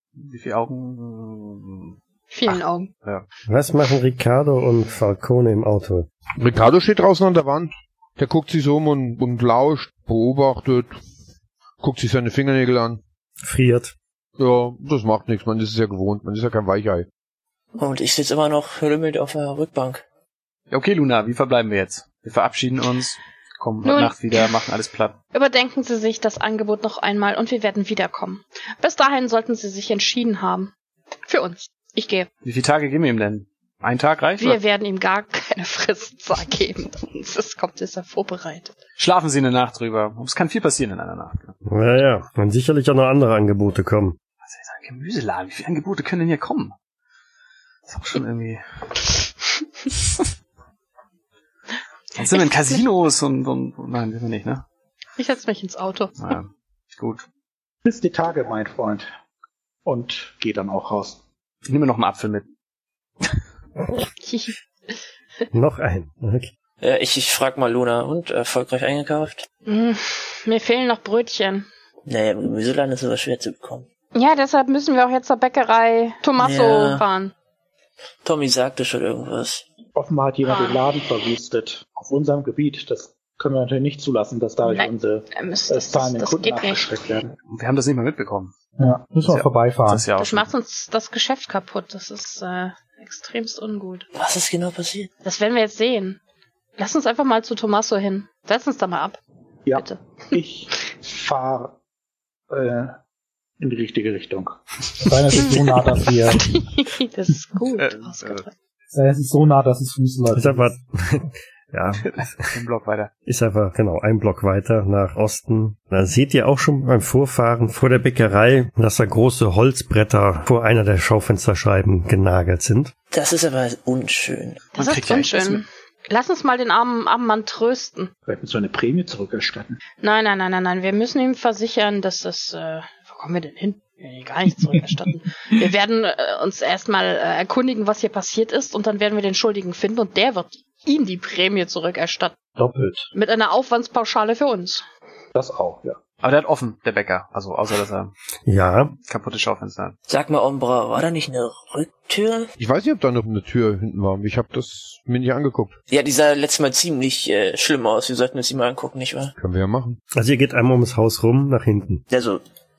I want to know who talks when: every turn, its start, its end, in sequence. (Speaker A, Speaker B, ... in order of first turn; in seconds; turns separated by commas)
Speaker A: 0.1-1.9, Speaker B: 2.3-2.9, Speaker A: 2.5-3.2, Speaker C: 3.5-6.1, Speaker D: 6.4-10.9, Speaker D: 11.8-13.0, Speaker C: 13.4-13.9, Speaker D: 14.4-17.1, Speaker E: 17.8-20.0, Speaker A: 20.7-25.2, Speaker B: 23.8-24.4, Speaker B: 25.3-30.7, Speaker B: 31.3-32.3, Speaker A: 32.4-34.6, Speaker B: 34.4-38.7, Speaker A: 39.0-41.5, Speaker C: 41.6-44.2, Speaker A: 44.4-46.7, Speaker A: 47.9-48.6, Speaker A: 52.1-54.6, Speaker B: 52.2-52.8, Speaker B: 55.2-56.1, Speaker A: 56.2-57.2, Speaker F: 57.8-59.1, Speaker F: 59.8-61.2, Speaker A: 61.6-62.5, Speaker B: 64.2-65.0, Speaker C: 65.5-66.5, Speaker E: 66.8-69.5, Speaker B: 69.7-71.7, Speaker E: 72.0-73.9, Speaker B: 74.1-77.3, Speaker E: 76.4-77.0, Speaker E: 78.2-79.7, Speaker F: 79.9-87.3, Speaker B: 80.5-80.8, Speaker B: 84.6-86.9, Speaker A: 87.5-88.5, Speaker F: 88.8-90.0, Speaker A: 89.2-90.5, Speaker B: 90.2-94.1, Speaker E: 94.1-95.1, Speaker B: 95.2-96.2, Speaker B: 96.8-99.2, Speaker F: 99.7-101.8, Speaker B: 99.7-100.4, Speaker F: 102.5-103.0, Speaker F: 103.6-106.5, Speaker B: 105.4-108.5, Speaker A: 107.8-108.4, Speaker F: 108.9-110.7, Speaker C: 110.3-112.5, Speaker A: 112.1-113.1, Speaker C: 113.2-122.9, Speaker E: 123.1-124.6, Speaker A: 124.7-125.6, Speaker B: 124.7-128.1, Speaker F: 128.2-129.8, Speaker B: 130.0-142.3, Speaker F: 142.6-143.1, Speaker B: 143.1-144.8, Speaker F: 145.3-146.0, Speaker A: 146.2-148.1, Speaker C: 148.4-148.9, Speaker A: 149.1-149.9, Speaker E: 150.1-152.5, Speaker D: 152.6-155.8, Speaker E: 155.9-159.3, Speaker D: 159.4-160.0, Speaker C: 160.1-162.0, Speaker E: 162.1-162.4